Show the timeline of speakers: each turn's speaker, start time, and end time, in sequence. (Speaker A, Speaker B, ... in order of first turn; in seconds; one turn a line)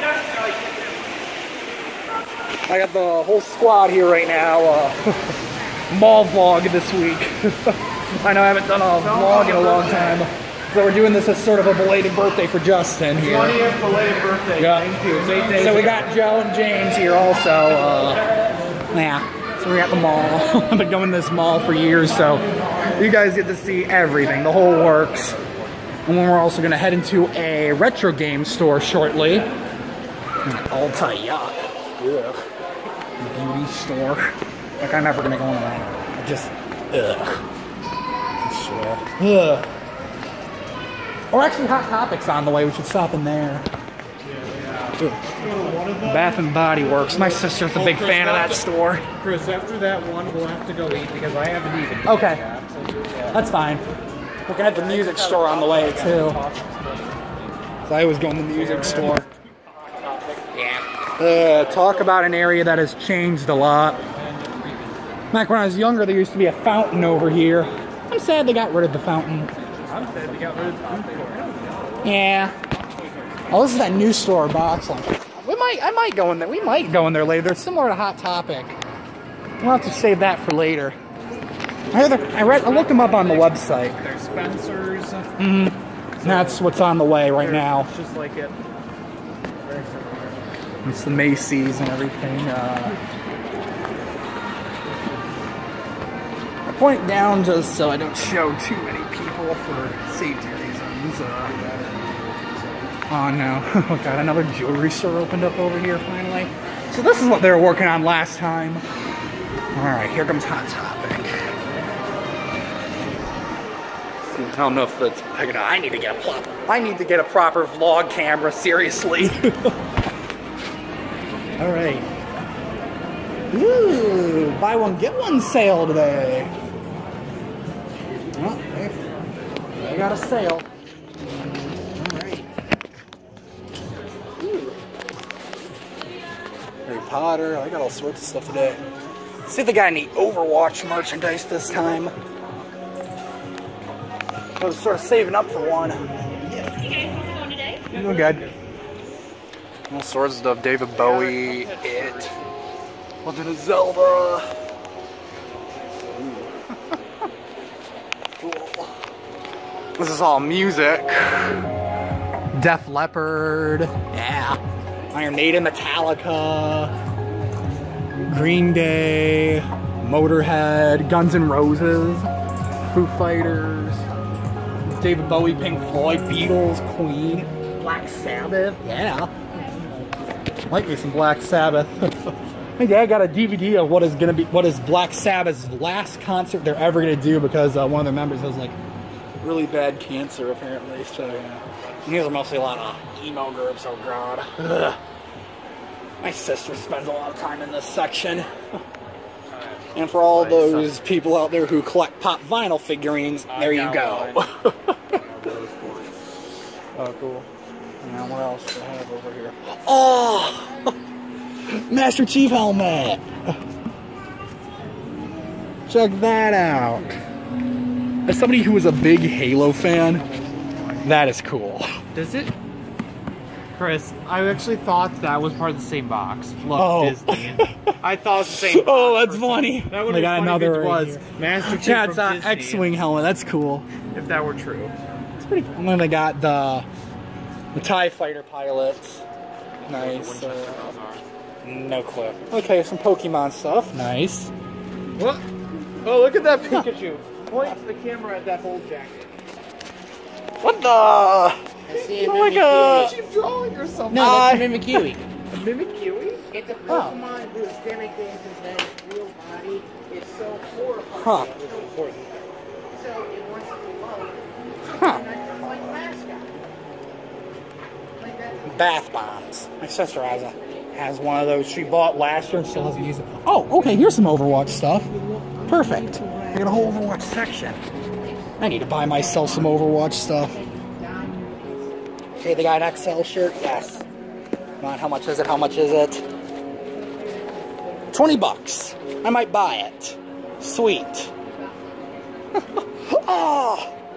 Speaker A: 2.7-5.4
Speaker A: 5.9-13.6
Speaker B: 9.0-10.2
Speaker B: 13.2-16.1
Speaker A: 14.6-18.3
Speaker A: 18.9-25.4
Speaker A: 26.1-29.5
Speaker A: 30.4-32.4
Speaker A: 33.2-37.5
Speaker A: 38.4-39.7
Speaker A: 41.3-43.7
Speaker B: 44.2-48.6
Speaker A: 46.0-49.1
Speaker B: 49.2-53.4
Speaker A: 52.0-52.4
Speaker A: 53.3-53.8
Speaker A: 54.5-56.4
Speaker B: 54.6-57.3
Speaker A: 57.9-59.3
Speaker B: 58.5-60.6
Speaker A: 60.5-64.0
Speaker B: 61.4-62.1
Speaker B: 64.1-64.9
Speaker A: 65.3-69.7
Speaker B: 69.9-72.1
Speaker A: 72.0-72.6
Speaker B: 72.9-73.5
Speaker A: 73.5-78.8
Speaker A: 79.6-81.0
Speaker A: 81.9-84.0
Speaker B: 82.3-85.3
Speaker A: 85.4-87.9
Speaker B: 86.2-86.7
Speaker B: 87.3-88.6
Speaker B: 89.6-90.4
Speaker A: 90.8-93.0
Speaker A: 96.7-101.6
Speaker A: 103.1-108.8
Speaker A: 109.7-111.3
Speaker A: 114.2-119.8
Speaker A: 121.6-122.1
Speaker A: 123.5-126.5
Speaker A: 128.3-129.0
Speaker A: 129.8-130.7
Speaker A: 131.3-132.5
Speaker A: 134.4-134.8
Speaker A: 136.9-138.8
Speaker A: 139.5-142.2
Speaker A: 144.6-146.0
Speaker A: 147.9-148.4
Speaker B: 147.9-148.5
Speaker A: 149.9-152.3
Speaker B: 150.9-152.4
Speaker A: 153.2-154.6
Speaker A: 156.2-156.9
Speaker A: 158.4-159.0
Speaker A: 160.0-161.7
Speaker A: 162.5-164.6
Speaker A: 165.1-166.9
Speaker A: 168.3-172.3
Speaker A: 172.9-174.1
Speaker A: 174.8-179.3
Speaker A: 180.7-188.8
Speaker A: 189.4-195.0
Speaker A: 196.2-198.5
Speaker B: 199.5-201.0
Speaker A: 199.9-205.2
Speaker B: 203.5-204.5
Speaker B: 205.1-206.1
Speaker A: 207.0-207.4
Speaker B: 207.0-207.4
Speaker A: 208.0-210.9
Speaker A: 211.7-213.6
Speaker A: 215.9-217.2
Speaker A: 218.3-220.2
Speaker B: 220.0-221.1
Speaker A: 221.0-222.0
Speaker B: 222.1-222.5
Speaker B: 223.8-232.9
Speaker A: 226.7-227.9
Speaker A: 228.6-233.9
Speaker B: 234.1-234.9
Speaker A: 235.4-236.9
Speaker A: 237.7-239.2
Speaker B: 239.8-241.2
Speaker A: 239.9-240.9
Speaker A: 241.6-244.5
Speaker B: 245.2-245.4
Speaker B: 246.0-249.3
Speaker A: 246.6-246.9
Speaker A: 250.6-253.2
Speaker C: 251.9-253.1
Speaker B: 252.8-254.4
Speaker C: 254.1-255.2
Speaker A: 254.1-255.1
Speaker B: 255.5-256.5
Speaker C: 256.5-262.0
Speaker A: 256.9-257.2
Speaker A: 261.2-261.5
Speaker B: 261.2-262.4
Speaker C: 262.9-266.7
Speaker A: 265.0-265.2
Speaker C: 268.2-268.8
Speaker A: 268.7-275.1
Speaker C: 275.1-277.0
Speaker A: 275.7-277.8
Speaker A: 278.6-280.6
Speaker C: 280.7-281.9
Speaker A: 282.4-284.1
Speaker A: 284.8-286.2
Speaker A: 288.1-291.3
Speaker A: 292.5-293.9